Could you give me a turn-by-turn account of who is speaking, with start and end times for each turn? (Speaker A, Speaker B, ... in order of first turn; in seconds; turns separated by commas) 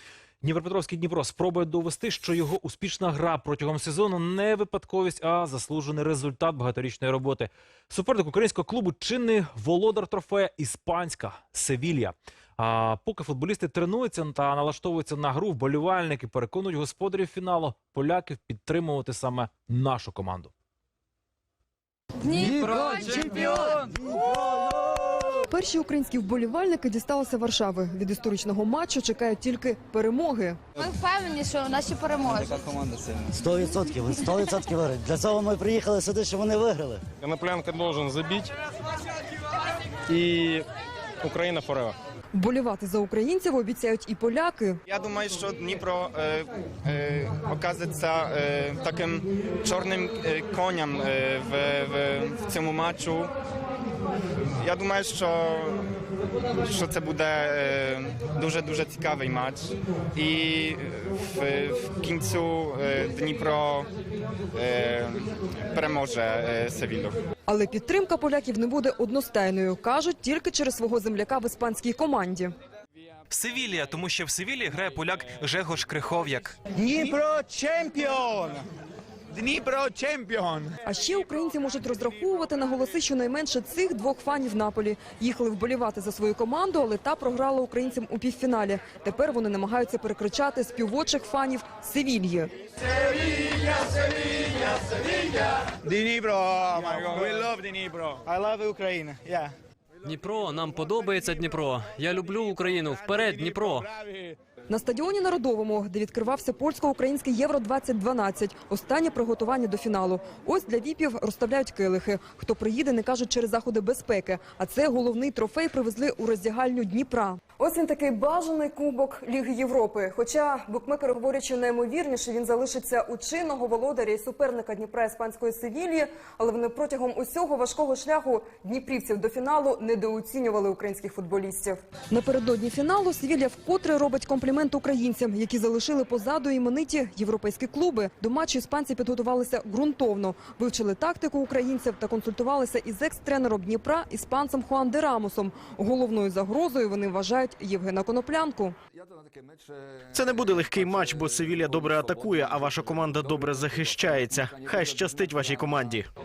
Speaker A: 0.4-20.5, Speaker B: 22.2-23.8, Speaker C: 22.6-25.4, Speaker D: 25.5-30.6, Speaker B: 30.8-32.6, Speaker C: 33.4-37.0, Speaker E: 37.2-38.5, Speaker E: 40.1-40.6, Speaker E: 41.2-42.0, Speaker D: 42.3-44.8, Speaker F: 44.9-53.3, Speaker F: 54.6-55.9, Speaker F: 56.6-63.9, Speaker F: 64.5-67.2, Speaker D: 67.5-72.5, Speaker G: 73.3-76.6, Speaker H: 76.7-78.6, Speaker H: 79.3-80.7, Speaker D: 80.8-92.5, Speaker H: 95.8-98.2, Speaker F: 96.5-97.5, Speaker F: 98.2-99.5, Speaker I: 100.0-103.9, Speaker D: 104.7-148.7, Speaker J: 150.1-156.1